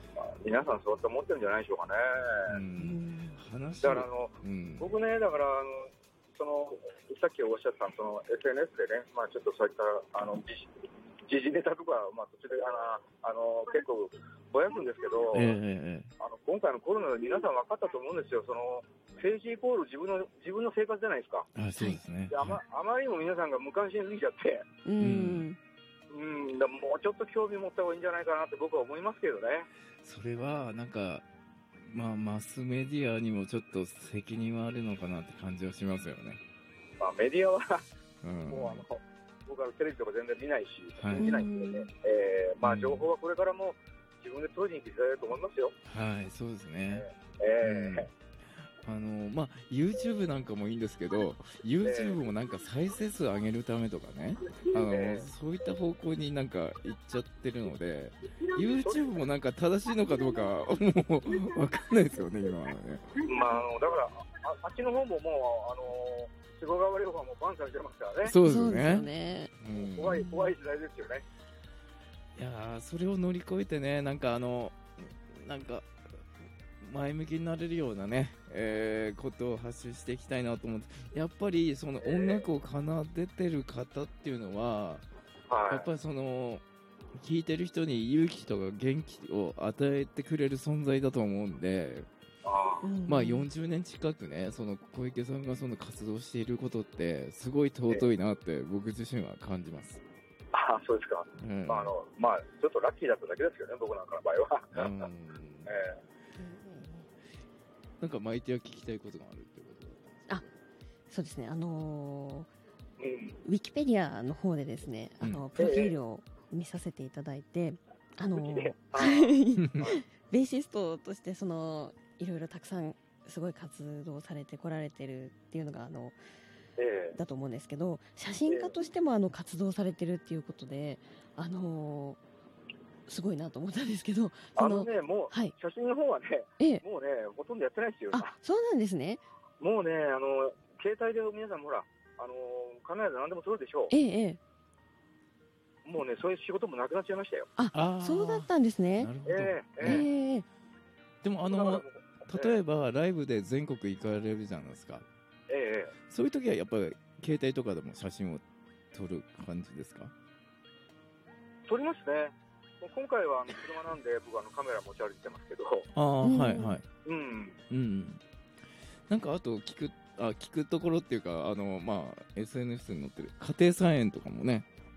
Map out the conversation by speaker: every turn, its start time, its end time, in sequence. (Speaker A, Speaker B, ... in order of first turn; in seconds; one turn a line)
Speaker A: 0.2-2.6
Speaker B: 2.5-4.9
Speaker C: 2.8-3.4
Speaker A: 3.8-10.7
Speaker A: 11.2-15.5
Speaker B: 15.3-16.1
Speaker A: 16.2-21.5
Speaker B: 21.5-22.6
Speaker A: 22.3-24.6
Speaker C: 24.8-25.6
Speaker B: 25.0-25.4
Speaker A: 26.1-29.7
Speaker B: 30.0-31.2
Speaker B: 31.9-36.4
Speaker A: 37.0-37.8
Speaker B: 38.2-38.8
Speaker A: 38.5-45.8
Speaker B: 41.0-41.4
Speaker C: 41.1-41.9
Speaker B: 42.6-43.1
Speaker B: 45.8-47.0
Speaker A: 46.9-48.1
Speaker B: 47.6-48.1
Speaker B: 48.8-63.1
Speaker A: 51.8-52.2
Speaker A: 54.8-55.3
Speaker A: 63.2-68.3
Speaker B: 68.2-69.1
Speaker C: 68.4-69.5
Speaker B: 69.6-70.2
Speaker A: 69.8-71.2
Speaker C: 70.1-70.5
Speaker B: 72.3-75.9
Speaker B: 76.8-85.0
Speaker A: 82.0-82.5
Speaker A: 85.5-85.9
Speaker B: 85.7-86.6
Speaker B: 87.2-92.1
Speaker A: 92.4-92.8
Speaker C: 92.8-93.5
Speaker B: 93.0-100.0
Speaker A: 100.5-104.9
Speaker B: 101.4-101.9
Speaker B: 104.7-105.7
Speaker A: 105.7-106.0
Speaker C: 106.4-107.1
Speaker B: 108.0-110.5
Speaker C: 111.1-112.5
Speaker A: 113.0-113.4
Speaker C: 113.4-126.2
Speaker A: 115.6-115.9
Speaker A: 118.3-120.0
Speaker B: 119.6-119.9
Speaker A: 126.8-127.2
Speaker C: 127.1-132.2
Speaker A: 128.5-128.8
Speaker C: 133.1-135.5
Speaker A: 134.6-138.3
Speaker C: 136.6-136.8
Speaker C: 138.1-139.2
Speaker A: 139.6-143.9
Speaker C: 143.9-144.4
Speaker A: 145.8-147.5
Speaker C: 147.6-149.1
Speaker B: 147.7-150.1
Speaker A: 149.2-150.1
Speaker C: 149.8-150.4
Speaker B: 151.2-155.1
Speaker A: 151.5-152.6
Speaker A: 155.5-155.9
Speaker B: 156.1-160.1
Speaker A: 161.7-165.9
Speaker B: 165.9-166.8
Speaker C: 166.2-166.7
Speaker A: 167.0-167.6
Speaker B: 167.7-168.2
Speaker B: 169.1-174.7